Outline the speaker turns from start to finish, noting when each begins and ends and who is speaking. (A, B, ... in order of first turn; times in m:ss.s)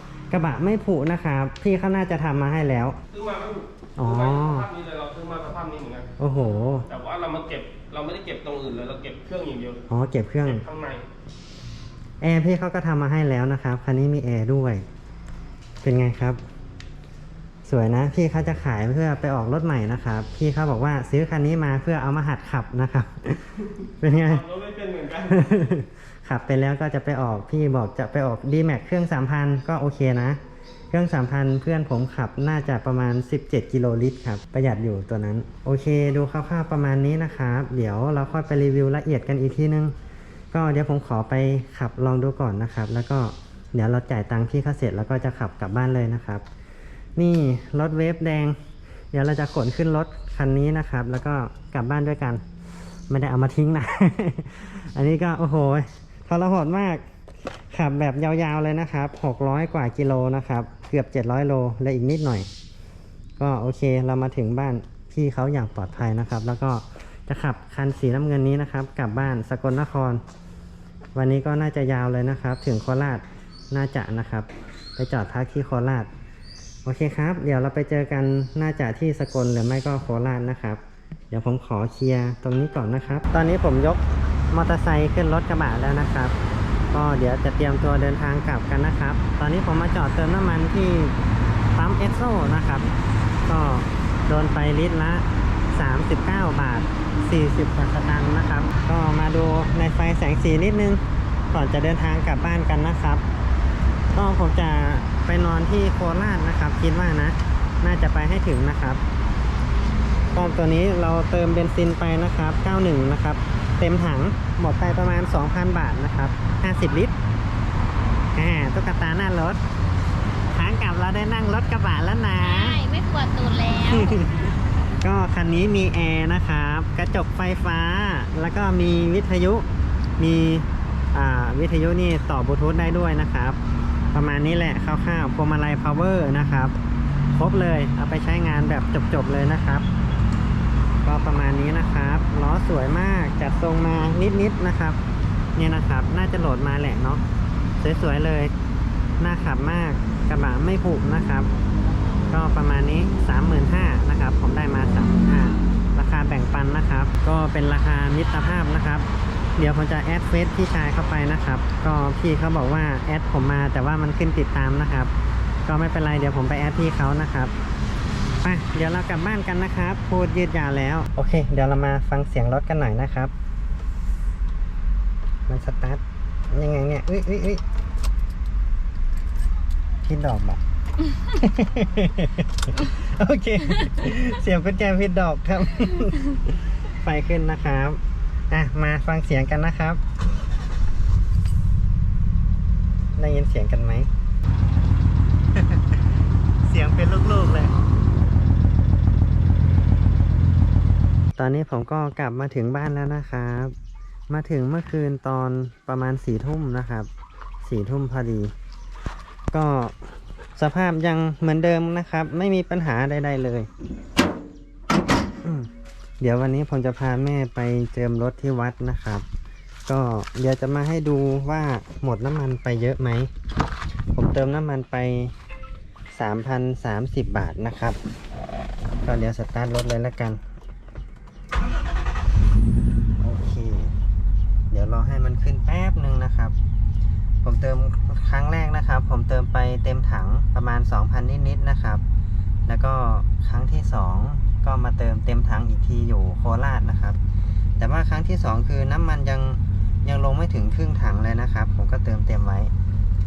0:00.3-0:03.0 A
0:03.1-0:06.1 B
0:04.0-0:04.7 A
0:06.2-0:06.9 A
0:06.9-0:09.8 B
0:09.9-0:10.7 A
0:10.4-0:11.1 B
0:12.2-0:14.8 A
0:15.8-0:16.4 A
0:17.6-0:24.4 A
0:24.2-0:25.7 B
0:25.2-0:30.4 A
0:30.9-0:39.9 A
0:40.5-0:46.4 A
0:47.2-0:48.6 A
0:49.1-0:52.4 A
0:53.1-0:57.0 A
0:57.7-1:02.5 A
1:03.4-1:10.2 A
1:11.1-1:16.1 A
1:16.8-1:26.4 A
1:26.9-1:31.1 A
1:31.8-1:32.9 A
1:33.4-1:41.0 A
1:41.5-1:43.2 A
1:44.1-1:49.0 A
1:50.3-1:57.2 A
1:58.4-1:59.6 A
2:00.5-2:02.8 A
2:02.4-2:04.6 C
2:03.9-2:09.6 A
2:10.2-2:13.6 A
2:14.1-2:16.8 A
2:17.3-2:19.9 A
2:21.0-2:25.0 A
2:25.6-2:27.2 A
2:27.8-2:28.5 A
2:29.2-2:31.5 A
2:32.3-2:45.1 A
2:45.6-2:47.5 A
2:48.4-2:53.3 A
2:55.5-2:57.6 A
3:00.0-3:00.6 A
3:01.2-3:08.0 A
3:08.5-3:10.0 A
3:13.2-3:14.1 A
3:15.5-3:16.0 A
3:16.6-3:17.8 A
3:21.4-3:23.7 A
3:24.3-3:27.1 A
3:27.6-3:28.5 A
3:29.5-3:33.7 A
3:35.4-3:39.2 A
3:39.9-3:43.3 A
3:44.1-3:45.3 A
3:46.1-3:48.0 A
3:49.0-3:50.4 A
3:53.2-3:53.9 A
3:54.7-3:56.5 A
3:57.4-4:02.0 A
4:02.7-4:07.2 A
4:07.8-4:12.7 A